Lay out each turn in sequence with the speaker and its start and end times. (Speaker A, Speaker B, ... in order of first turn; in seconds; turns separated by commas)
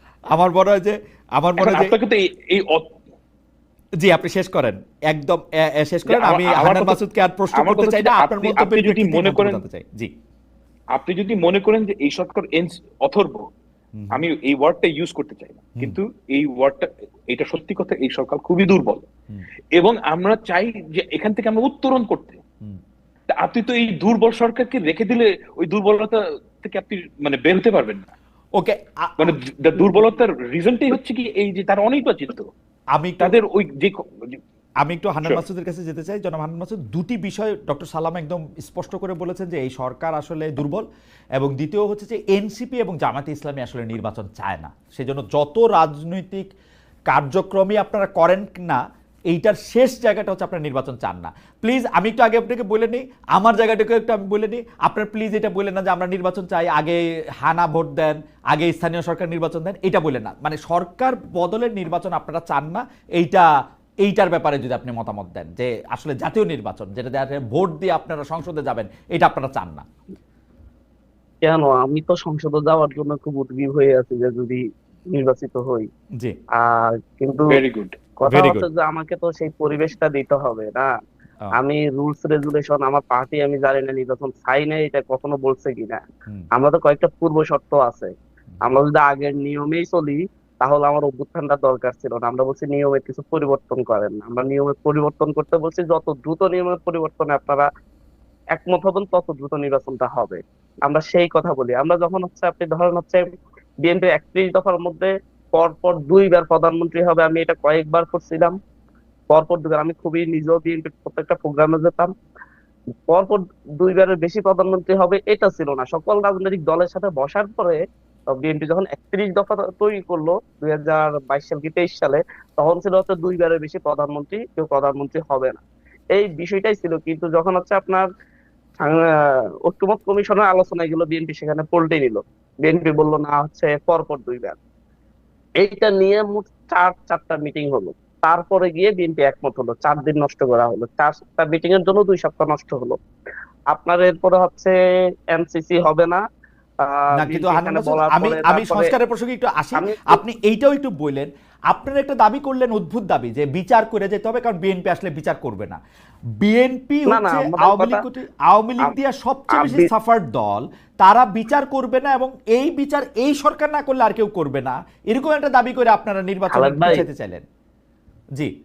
Speaker A: 0.3-1.9, Speaker B: 1.6-3.0, Speaker A: 4.0-10.1, Speaker B: 6.1-7.0, Speaker B: 7.5-9.6, Speaker B: 10.9-13.5, Speaker A: 14.0-14.3, Speaker B: 14.1-19.1, Speaker B: 19.8-22.4, Speaker B: 23.3-28.1, Speaker A: 28.6-29.4, Speaker B: 29.2-32.5, Speaker A: 33.0-33.4, Speaker B: 33.2-34.4, Speaker A: 34.8-40.9, Speaker A: 41.4-46.5, Speaker A: 47.1-63.5, Speaker A: 64.0-69.8, Speaker C: 71.4-75.9, Speaker C: 76.6-77.6, Speaker B: 77.5-78.0, Speaker C: 78.2-80.9, Speaker A: 78.3-78.7, Speaker C: 81.5-86.0, Speaker C: 86.5-88.1, Speaker C: 88.7-97.7, Speaker C: 98.5-103.2, Speaker C: 103.8-108.6, Speaker C: 109.3-112.1, Speaker C: 113.1-125.6, Speaker C: 126.1-128.1, Speaker C: 129.7-134.6, Speaker C: 135.6-143.0, Speaker C: 143.7-144.8, Speaker C: 145.3-146.2, Speaker C: 146.8-148.9, Speaker A: 147.2-155.8, Speaker C: 149.8-150.2, Speaker A: 156.4-167.4, Speaker C: 157.1-158.0, Speaker C: 159.5-159.9, Speaker C: 166.5-167.1